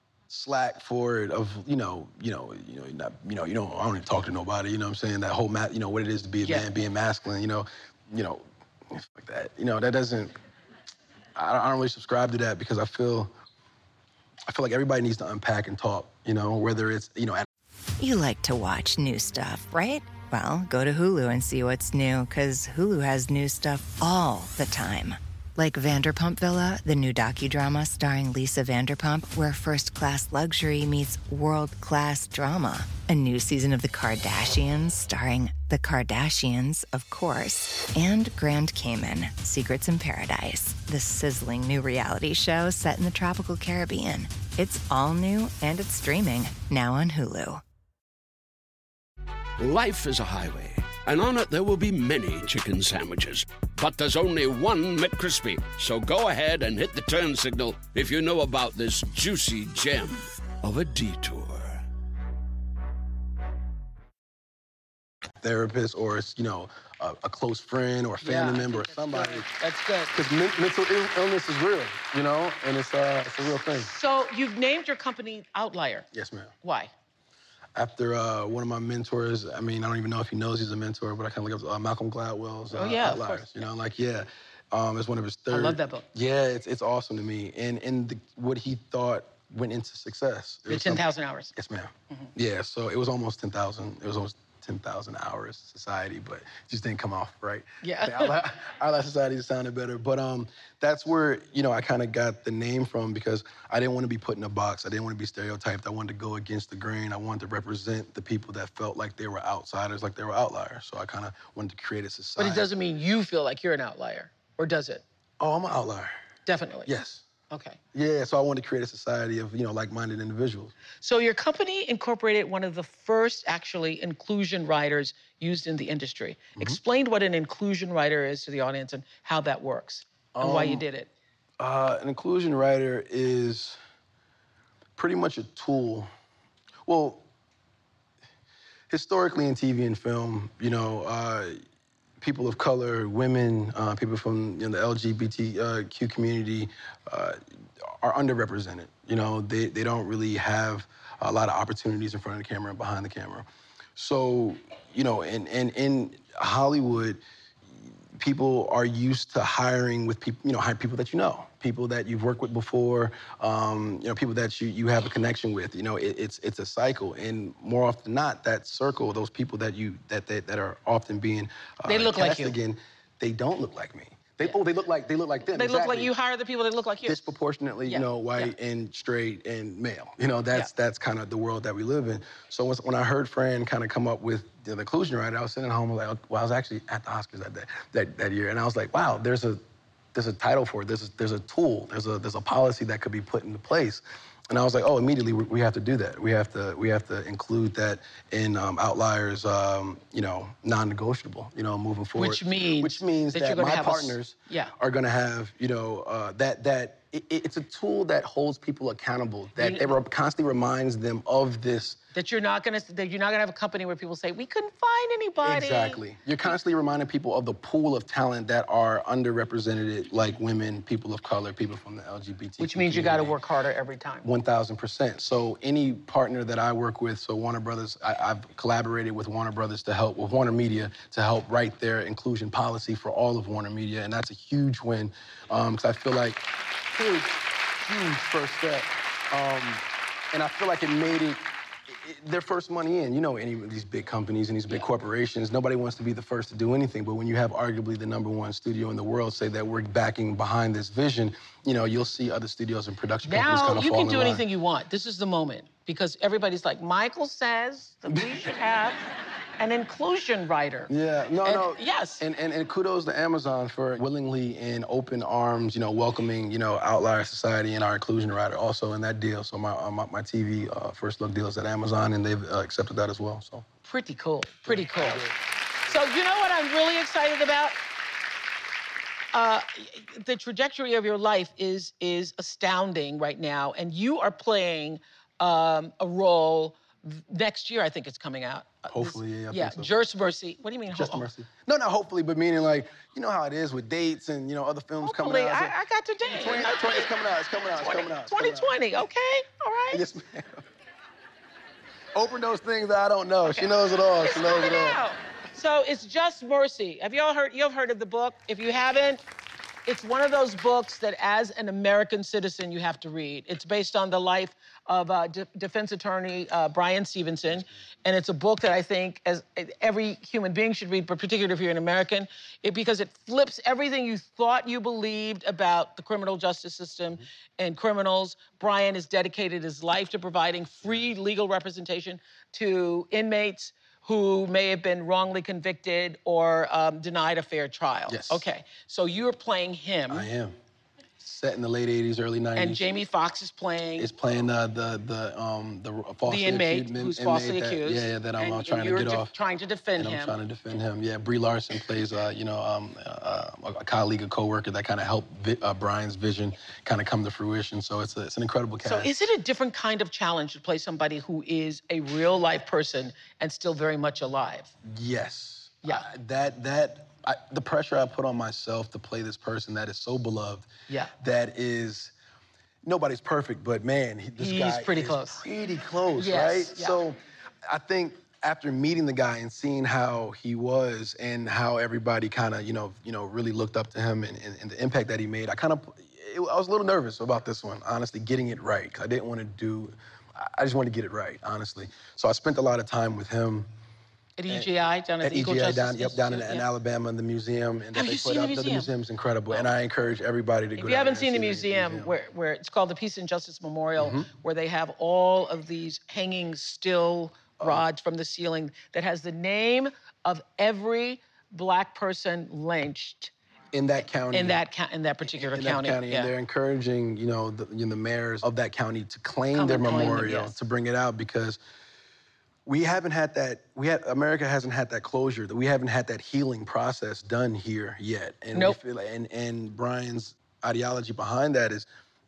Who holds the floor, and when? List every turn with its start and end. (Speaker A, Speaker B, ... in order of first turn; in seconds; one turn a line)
Speaker A: 0.3-10.3
Speaker B: 6.4-6.7
Speaker A: 11.3-13.3
Speaker A: 14.5-17.5
Speaker C: 18.0-47.6
Speaker D: 49.6-61.8
Speaker A: 65.4-69.5
Speaker B: 68.2-70.1
Speaker A: 70.1-73.9
Speaker B: 73.9-76.1
Speaker A: 76.1-76.5
Speaker B: 76.6-76.9
Speaker A: 77.8-112.7
Speaker B: 82.7-83.7
Speaker B: 85.5-86.1
Speaker B: 90.7-91.5
Speaker B: 97.8-98.4
Speaker B: 112.4-115.0
Speaker A: 115.4-116.1
Speaker B: 116.5-116.9
Speaker A: 116.8-117.2
Speaker B: 117.5-117.8
Speaker A: 117.9-120.8
Speaker B: 121.0-131.1
Speaker A: 130.4-130.8
Speaker A: 131.6-133.8
Speaker A: 135.0-136.1
Speaker A: 136.9-137.2
Speaker A: 138.9-141.6
Speaker A: 142.2-157.2
Speaker A: 157.8-176.1
Speaker B: 171.9-172.6
Speaker B: 175.5-177.2
Speaker A: 177.1-189.6
Speaker B: 177.9-178.6
Speaker A: 190.1-212.0
Speaker B: 202.2-204.7
Speaker B: 209.6-210.0
Speaker B: 212.2-216.0
Speaker A: 215.4-223.4
Speaker B: 222.6-224.3
Speaker A: 224.2-254.4
Speaker B: 253.2-260.9
Speaker A: 258.1-258.4
Speaker A: 260.9-273.7
Speaker B: 261.4-262.2
Speaker B: 273.9-275.3
Speaker A: 274.7-275.4
Speaker B: 275.9-277.8
Speaker B: 279.3-291.3
Speaker A: 288.9-289.9
Speaker A: 290.9-295.7
Speaker B: 295.0-297.1
Speaker A: 296.3-298.7
Speaker B: 297.8-300.0
Speaker A: 299.9-300.6
Speaker A: 302.1-305.0
Speaker B: 303.5-309.2
Speaker B: 309.9-340.3
Speaker A: 338.1-338.5
Speaker A: 340.1-340.6
Speaker A: 341.2-342.9
Speaker B: 342.6-344.1
Speaker A: 344.0-349.3
Speaker B: 346.3-350.4
Speaker A: 350.0-359.1
Speaker B: 358.8-364.7
Speaker A: 364.8-370.7
Speaker A: 371.2-372.1
Speaker A: 372.8-393.7
Speaker B: 374.4-375.4
Speaker B: 376.2-377.0
Speaker B: 394.4-396.7
Speaker A: 395.2-402.1
Speaker B: 397.9-398.9
Speaker B: 400.8-413.3
Speaker A: 404.0-404.3
Speaker A: 407.6-407.9
Speaker A: 413.7-414.6
Speaker B: 414.3-416.3
Speaker A: 415.3-421.6
Speaker B: 419.5-420.6
Speaker A: 422.7-431.9